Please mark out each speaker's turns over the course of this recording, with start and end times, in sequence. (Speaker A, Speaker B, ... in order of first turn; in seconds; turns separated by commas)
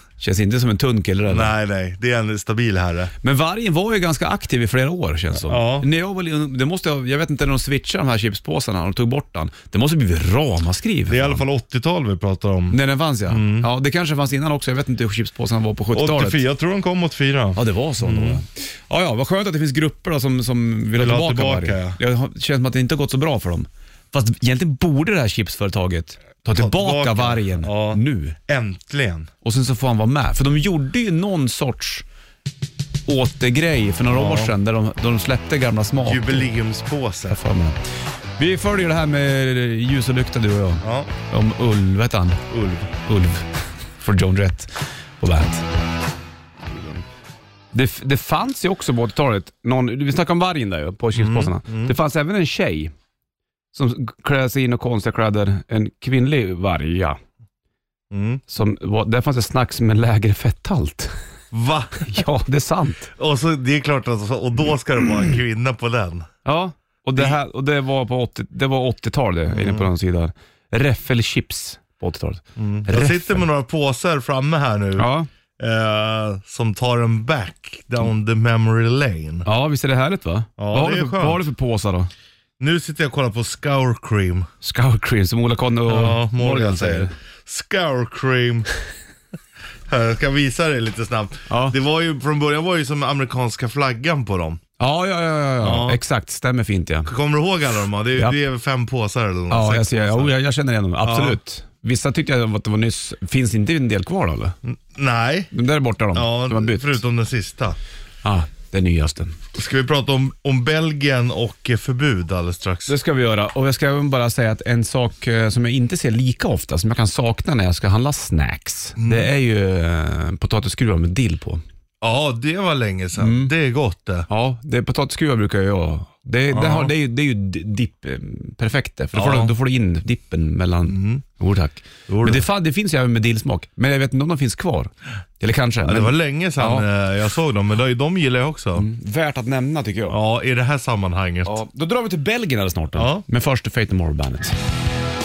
Speaker A: 0.2-1.5, Speaker B: 1.3-3.1, Speaker A: 3.2-11.4, Speaker B: 5.4-5.9, Speaker B: 11.1-13.7, Speaker A: 12.7-16.4, Speaker B: 15.9-18.4, Speaker A: 17.6-28.4, Speaker B: 21.0-22.0, Speaker B: 26.5-29.3, Speaker A: 29.4-32.0, Speaker A: 33.1-36.5, Speaker B: 34.1-34.5, Speaker B: 36.0-37.4, Speaker A: 37.3-37.8, Speaker A: 38.4-42.4, Speaker B: 40.8-41.1, Speaker B: 42.5-42.9, Speaker A: 43.0-45.7, Speaker A: 47.7-52.9, Speaker B: 51.1-52.0, Speaker A: 53.7-57.2, Speaker B: 58.1-58.4, Speaker A: 58.5-61.1, Speaker B: 61.5-62.1, Speaker A: 62.0-63.1, Speaker B: 63.2-66.3, Speaker A: 66.5-73.5, Speaker B: 69.5-69.9, Speaker B: 72.6-79.5, Speaker A: 75.0-75.3, Speaker A: 79.5-82.1, Speaker B: 80.6-81.4, Speaker B: 82.6-84.5, Speaker A: 84.6-87.1, Speaker B: 85.9-88.7, Speaker B: 89.9-94.6, Speaker A: 91.5-91.8, Speaker A: 94.8-97.1, Speaker B: 95.6-96.0, Speaker B: 97.1-100.3, Speaker A: 99.5-104.6, Speaker B: 101.0-101.4, Speaker B: 104.7-105.5, Speaker A: 105.5-107.0, Speaker B: 106.1-107.8, Speaker A: 108.2-109.4, Speaker B: 109.5-112.9, Speaker A: 112.9-121.6, Speaker B: 119.0-119.3, Speaker B: 122.0-124.3, Speaker A: 123.2-123.5, Speaker A: 124.3-136.9, Speaker B: 126.5-126.9, Speaker B: 129.1-129.5, Speaker B: 130.9-131.2, Speaker B: 132.1-132.4, Speaker B: 135.8-138.9, Speaker A: 138.8-140.2, Speaker B: 140.1-141.6, Speaker A: 141.4-144.6, Speaker B: 142.9-143.2